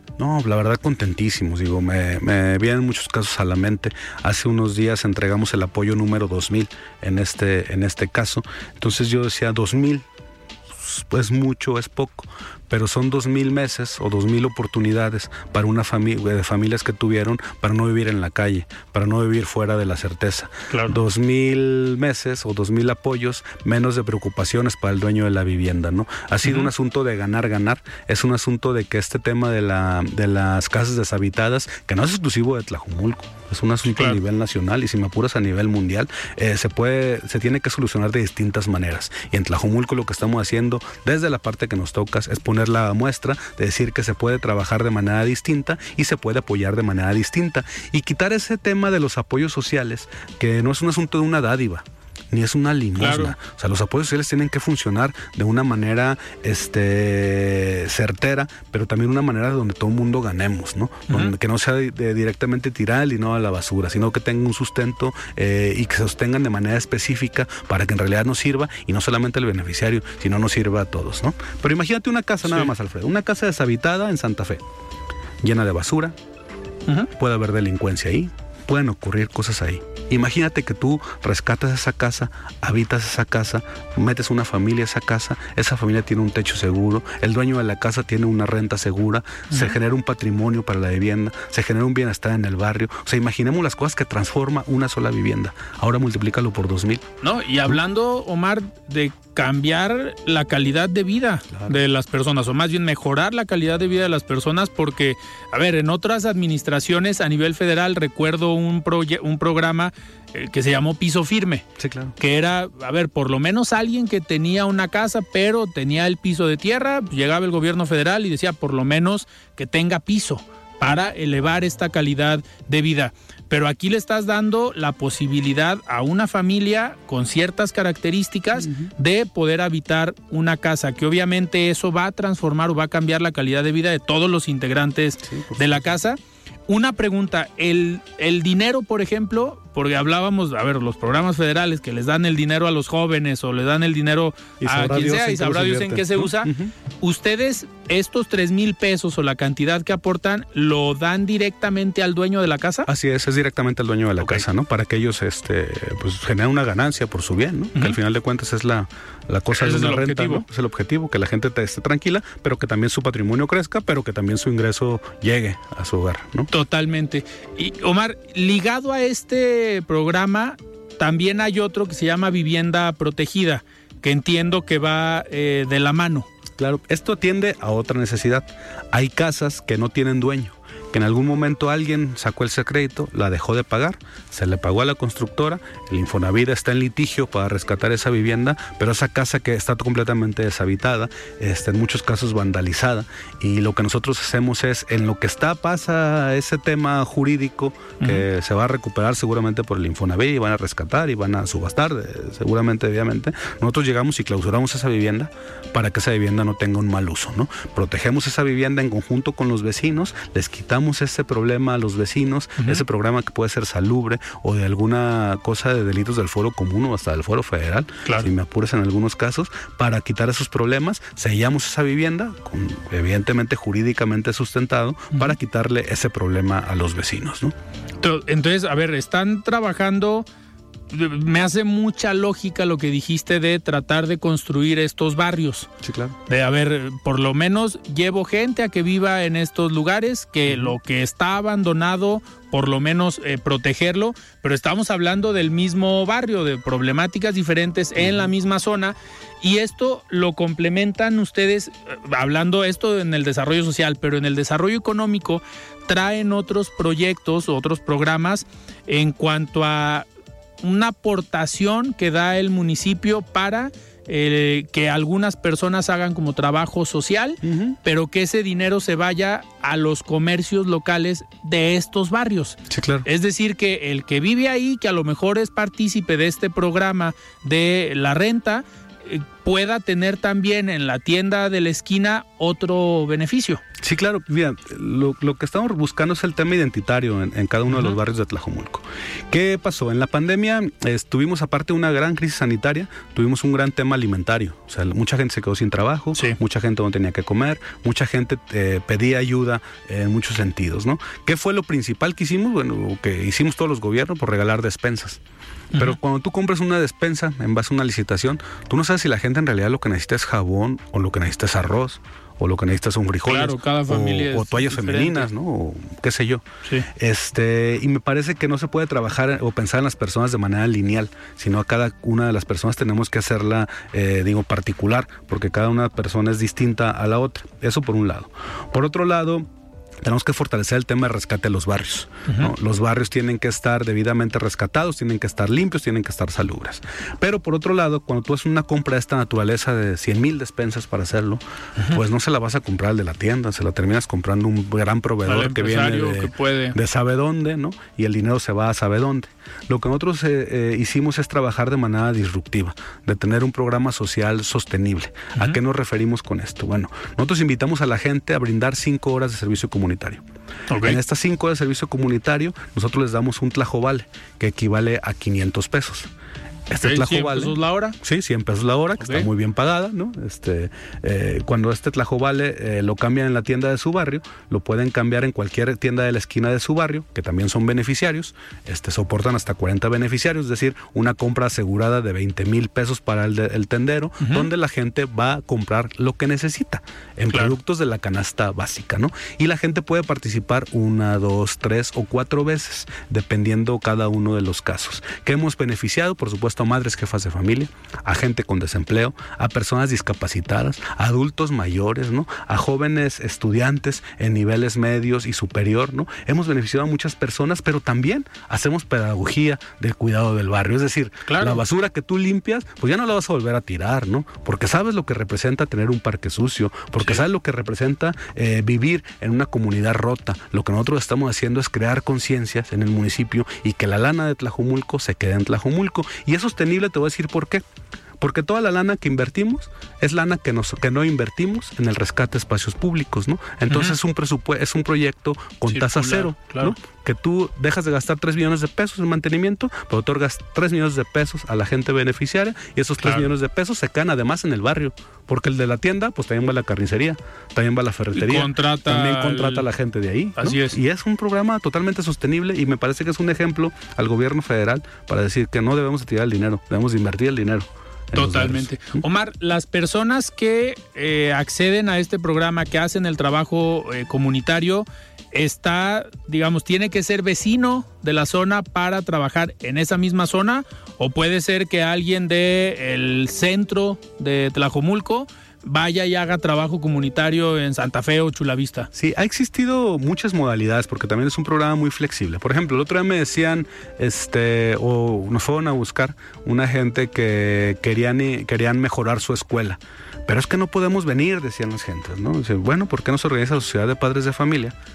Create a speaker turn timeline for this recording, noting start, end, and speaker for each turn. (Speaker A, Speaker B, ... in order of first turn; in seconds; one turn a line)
Speaker A: 0.2-10.1
Speaker A: 10.8-74.6
Speaker B: 20.7-21.0
Speaker B: 26.4-26.7
Speaker B: 33.9-34.2
Speaker B: 53.0-53.4
Speaker B: 61.1-61.3
Speaker B: 72.4-72.7
Speaker A: 75.4-76.2
Speaker A: 77.2-97.0
Speaker B: 89.5-89.8
Speaker B: 97.2-111.7
Speaker A: 101.5-101.8
Speaker A: 111.8-112.2
Speaker B: 112.2-152.9
Speaker A: 128.6-128.9
Speaker A: 135.2-135.9
Speaker A: 144.6-146.7
Speaker A: 152.9-166.5
Speaker B: 159.5-160.4
Speaker B: 166.5-176.3
Speaker A: 176.6-227.5
Speaker B: 198.0-198.2
Speaker B: 212.6-212.8
Speaker B: 218.1-218.3
Speaker B: 228.0-230.3
Speaker B: 230.9-235.7
Speaker A: 235.8-236.2
Speaker B: 236.3-260.1
Speaker A: 240.5-240.8
Speaker A: 248.0-248.3
Speaker B: 260.6-283.6
Speaker A: 267.4-267.8
Speaker A: 272.7-273.1
Speaker A: 283.8-305.2
Speaker B: 287.7-288.0
Speaker A: 305.8-316.4
Speaker B: 313.2-315.3
Speaker A: 316.9-329.5
Speaker A: 330.0-360.2
Speaker B: 332.3-332.5
Speaker B: 345.3-346.8
Speaker B: 360.7-361.0
Speaker A: 360.8-366.1
Speaker A: 366.7-427.6
Speaker B: 366.8-368.0
Speaker B: 369.0-369.3
Speaker B: 384.2-384.5
Speaker B: 411.3-411.6
Speaker A: 428.2-459.1
Speaker B: 433.7-434.0
Speaker B: 435.7-436.8
Speaker B: 443.0-443.3
Speaker B: 448.1-449.7
Speaker B: 450.4-450.8
Speaker B: 458.1-478.9
Speaker A: 478.9-494.8